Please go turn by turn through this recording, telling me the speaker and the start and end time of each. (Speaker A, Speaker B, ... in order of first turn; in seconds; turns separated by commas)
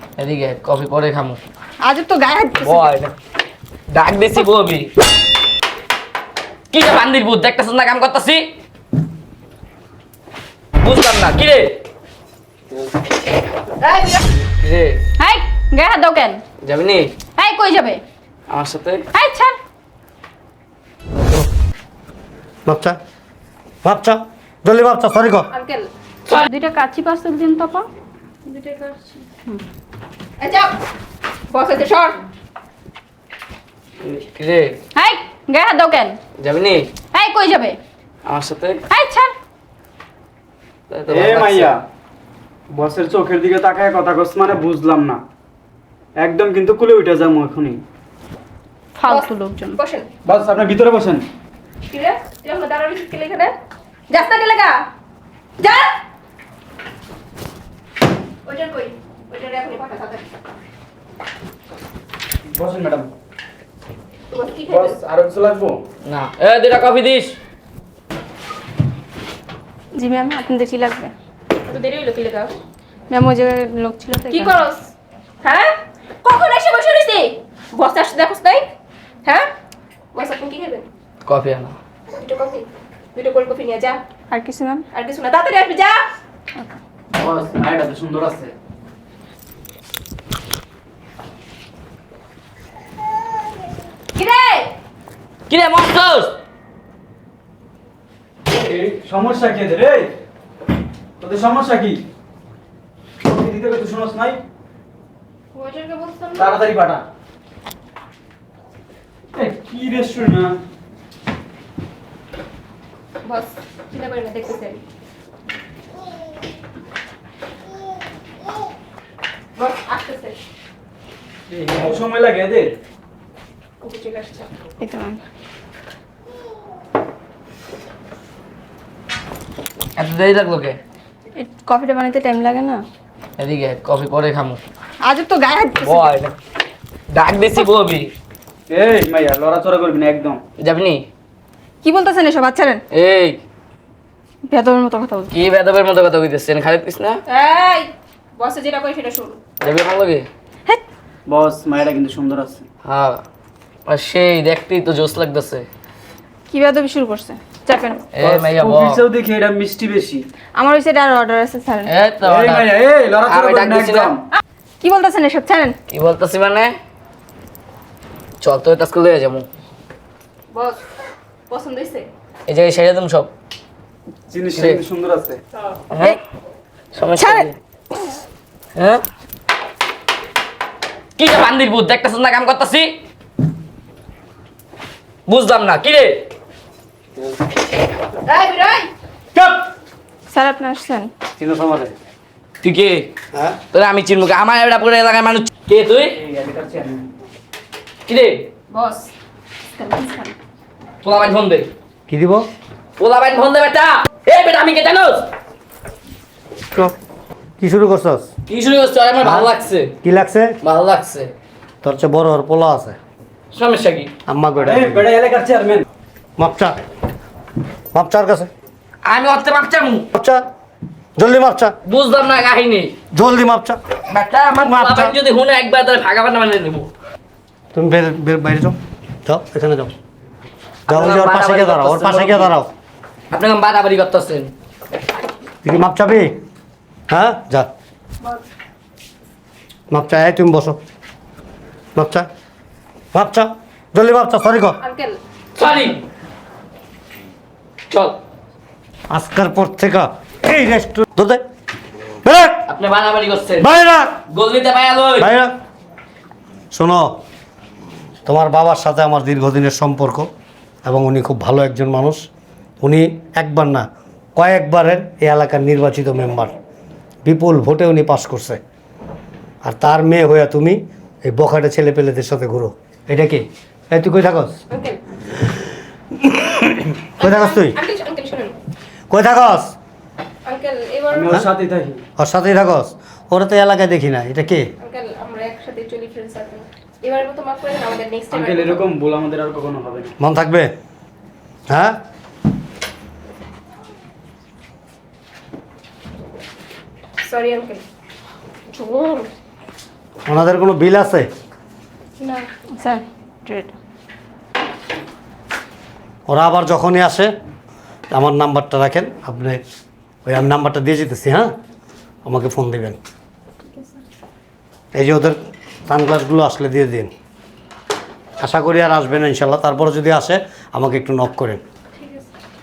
Speaker A: 0.2-1.4, Speaker B: 1.8-2.9, Speaker A: 2.6-3.1, Speaker A: 3.9-4.9, Speaker A: 6.7-8.5, Speaker A: 10.8-11.8, Speaker A: 14.6-15.0, Speaker B: 15.2-16.4, Speaker A: 16.6-17.1, Speaker B: 17.4-18.0, Speaker A: 18.5-19.1, Speaker B: 19.1-19.6, Speaker C: 22.7-23.0, Speaker C: 23.8-25.5, Speaker D: 25.5-25.9, Speaker B: 26.3-27.9, Speaker D: 28.5-28.9, Speaker D: 30.4-30.8, Speaker D: 31.5-32.2, Speaker A: 34.0-34.8, Speaker B: 35.0-36.2, Speaker A: 36.4-36.9, Speaker B: 37.1-37.8, Speaker A: 38.3-38.8, Speaker B: 38.9-39.3, Speaker A: 40.9-41.8, Speaker E: 41.1-41.8, Speaker E: 42.7-45.2, Speaker E: 46.2-47.8, Speaker B: 49.0-49.8, Speaker D: 49.1-50.1, Speaker E: 50.2-51.2, Speaker D: 51.9-53.5, Speaker D: 54.1-54.9, Speaker D: 55.6-55.9, Speaker D: 58.5-60.3, Speaker E: 62.5-63.1, Speaker D: 64.3-65.0, Speaker E: 64.7-65.8, Speaker A: 66.0-67.4, Speaker B: 70.0-71.1, Speaker D: 71.7-72.5, Speaker B: 73.1-74.6, Speaker D: 74.3-78.7, Speaker D: 80.1-80.8, Speaker A: 81.2-81.8, Speaker D: 82.2-84.0, Speaker B: 84.3-84.9, Speaker D: 84.9-86.1, Speaker E: 87.2-88.5, Speaker D: 94.2-94.7, Speaker A: 95.5-96.4, Speaker E: 98.5-100.1, Speaker E: 101.2-102.0, Speaker E: 103.2-104.4, Speaker D: 105.5-106.6, Speaker E: 106.4-107.0, Speaker E: 109.3-110.6, Speaker D: 113.2-114.8, Speaker D: 119.6-120.4, Speaker E: 121.5-122.8, Speaker D: 123.8-124.5, Speaker B: 124.8-125.2, Speaker A: 130.0-130.8, Speaker B: 131.4-132.8, Speaker A: 133.4-134.6, Speaker B: 135.1-136.1, Speaker A: 135.8-136.3, Speaker A: 137.1-138.1, Speaker E: 138.7-140.4, Speaker A: 140.6-141.1, Speaker B: 141.8-142.8, Speaker A: 142.9-143.4, Speaker B: 144.5-145.3, Speaker A: 145.3-147.2, Speaker D: 147.3-149.4, Speaker A: 149.6-150.3, Speaker E: 151.3-152.6, Speaker A: 152.8-153.2, Speaker A: 153.9-155.7, Speaker B: 156.5-158.0, Speaker A: 158.1-159.0, Speaker E: 158.2-160.3, Speaker B: 160.6-161.9, Speaker A: 161.9-164.1, Speaker E: 162.2-164.2, Speaker B: 164.8-165.8, Speaker A: 165.9-166.8, Speaker A: 168.4-169.5, Speaker D: 170.5-170.8, Speaker D: 171.5-172.1, Speaker A: 172.5-173.3, Speaker E: 174.3-175.4, Speaker A: 174.5-174.8, Speaker A: 175.9-176.2, Speaker A: 176.9-177.6, Speaker B: 177.2-177.5, Speaker A: 178.8-179.0, Speaker A: 181.2-182.9, Speaker A: 185.3-186.3, Speaker D: 188.3-188.9, Speaker A: 189.3-189.6, Speaker B: 190.3-191.1, Speaker C: 191.4-191.9, Speaker A: 192.6-193.1, Speaker C: 193.3-193.6, Speaker A: 193.7-196.2, Speaker E: 196.2-197.1, Speaker A: 198.1-198.5, Speaker D: 198.7-199.1, Speaker D: 199.8-200.3, Speaker A: 201.0-201.7, Speaker C: 202.1-202.5, Speaker A: 203.0-205.3, Speaker C: 207.6-208.3, Speaker A: 208.5-209.9, Speaker C: 209.2-209.5, Speaker C: 210.0-210.6, Speaker A: 210.6-211.3, Speaker C: 211.8-213.0, Speaker A: 213.5-214.1, Speaker C: 214.3-215.1, Speaker E: 214.6-215.9, Speaker C: 216.4-216.8, Speaker C: 217.9-218.5, Speaker A: 219.0-220.1, Speaker C: 220.1-220.4, Speaker C: 221.2-221.8, Speaker A: 221.9-222.9, Speaker C: 223.1-223.8, Speaker A: 224.1-226.9, Speaker C: 224.6-225.1, Speaker C: 227.7-229.9, Speaker A: 230.9-232.5, Speaker C: 230.9-232.7, Speaker A: 233.3-234.5, Speaker C: 235.6-236.4, Speaker C: 237.1-237.7, Speaker C: 239.9-240.8, Speaker C: 241.9-242.3, Speaker C: 243.1-244.8, Speaker D: 244.8-245.2, Speaker A: 245.6-246.0, Speaker A: 247.9-248.2, Speaker C: 249.1-251.4, Speaker C: 252.2-252.7, Speaker A: 252.7-253.7, Speaker C: 253.6-254.2, Speaker A: 254.3-255.3, Speaker C: 255.2-255.5, Speaker C: 256.7-257.2, Speaker C: 258.3-260.3, Speaker C: 260.8-262.3, Speaker C: 262.8-266.6, Speaker C: 267.2-268.6, Speaker C: 269.6-274.6, Speaker D: 274.7-275.0, Speaker C: 276.2-277.8, Speaker D: 277.2-278.6, Speaker C: 279.1-279.8, Speaker D: 280.4-281.3, Speaker E: 281.1-282.0, Speaker C: 282.2-284.7, Speaker D: 284.8-288.9, Speaker E: 288.3-290.1, Speaker C: 290.2-290.7, Speaker C: 291.7-292.0, Speaker D: 297.2-297.8, Speaker D: 298.7-299.3, Speaker C: 300.3-301.3, Speaker B: 302.8-303.7, Speaker C: 306.3-307.3, Speaker C: 308.1-309.6, Speaker C: 310.2-311.5, Speaker C: 312.2-313.0, Speaker C: 314.9-317.1, Speaker C: 318.4-321.6